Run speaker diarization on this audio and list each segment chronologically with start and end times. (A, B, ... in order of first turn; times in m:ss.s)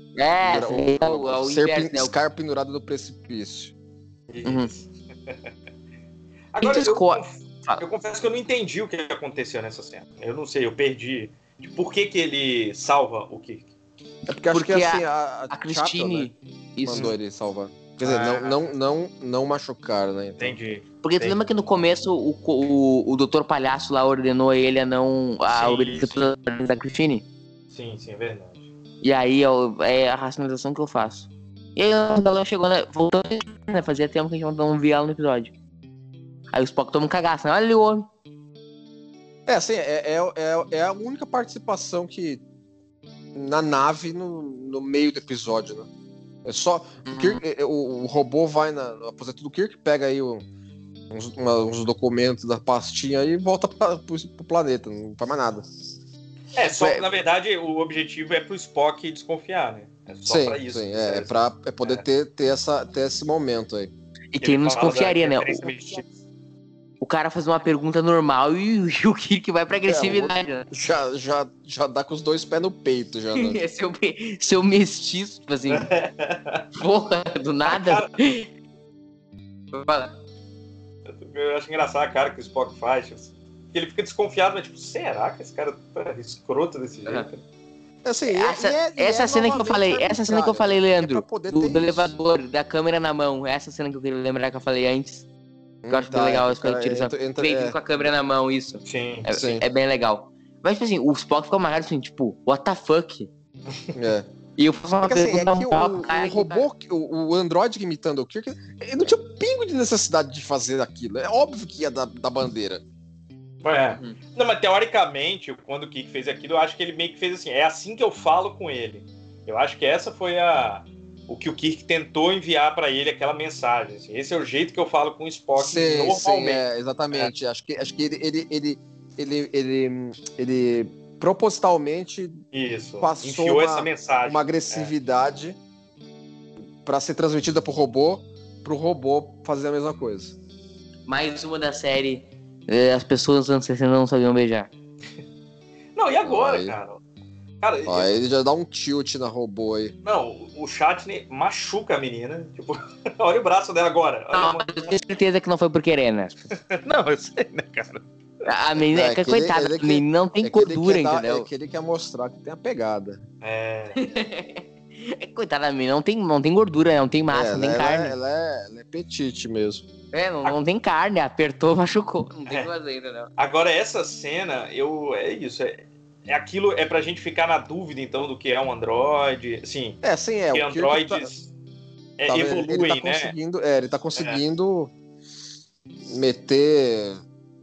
0:00.2-0:02.1 A
0:00.4-0:03.7 B
0:04.3-0:05.3 C
0:04.4-0:04.7 A
0:06.5-0:13.7 C
0:06.6-0:07.8 A
0:14.3-0:16.3 B
0:14.5-0:17.1 A
0:16.8-0:20.6 B
0:18.0-0:18.7 C
0:20.4-0:21.4 C
0:21.0-0:27.2 A
0:25.5-0:26.2 C
0:27.7-0:28.7 C
0:29.0-0:35.5 A
0:36.5-0:38.1 A
0:39.5-0:42.4 B
0:43.3-0:45.9 B
0:46.4-0:50.4 B
0:47.1-0:47.4 A
0:51.1-0:55.6 B
0:56.6-1:02.0 C
1:00.2-1:03.9 B
1:04.3-1:05.7 A
1:04.4-1:06.1 C
1:07.0-1:10.7 A
1:09.9-1:13.6 B
1:13.3-1:15.9 A
1:15.7-1:16.6 C
1:16.8-1:18.5 A
1:17.7-1:18.3 C
1:19.7-1:20.1 A
1:21.1-1:27.4 C
1:28.0-1:32.1 B
1:28.3-1:35.2 A
1:35.8-1:37.8 B
1:35.9-1:43.3 A
1:38.8-1:39.3 C
1:39.3-1:39.6 B
1:43.9-1:44.3 B
1:44.6-1:46.7 A
1:45.0-1:52.8 B
1:53.6-2:07.3 C
1:53.9-1:54.2 A
2:05.6-2:12.4 B
2:12.5-2:14.9 C
2:13.0-2:15.6 B
2:16.8-2:20.4 B
2:21.1-2:24.7 A
2:26.0-2:27.0 C
2:26.2-2:26.8 B
2:27.6-2:28.2 C
2:27.8-2:29.9 B
2:30.0-2:34.8 C
2:34.3-2:36.3 A
2:36.7-2:38.0 C
2:38.4-2:41.5 A
2:38.9-2:43.2 B
2:43.4-2:44.0 C
2:44.0-2:48.1 A
2:47.3-2:49.8 B
2:50.1-2:53.3 A
2:53.4-3:00.0 C
3:00.0-3:01.3 B
3:00.5-3:01.5 C
3:02.2-3:03.3 C
3:02.3-3:04.9 B
3:04.1-3:04.4 C
3:06.1-3:07.2 B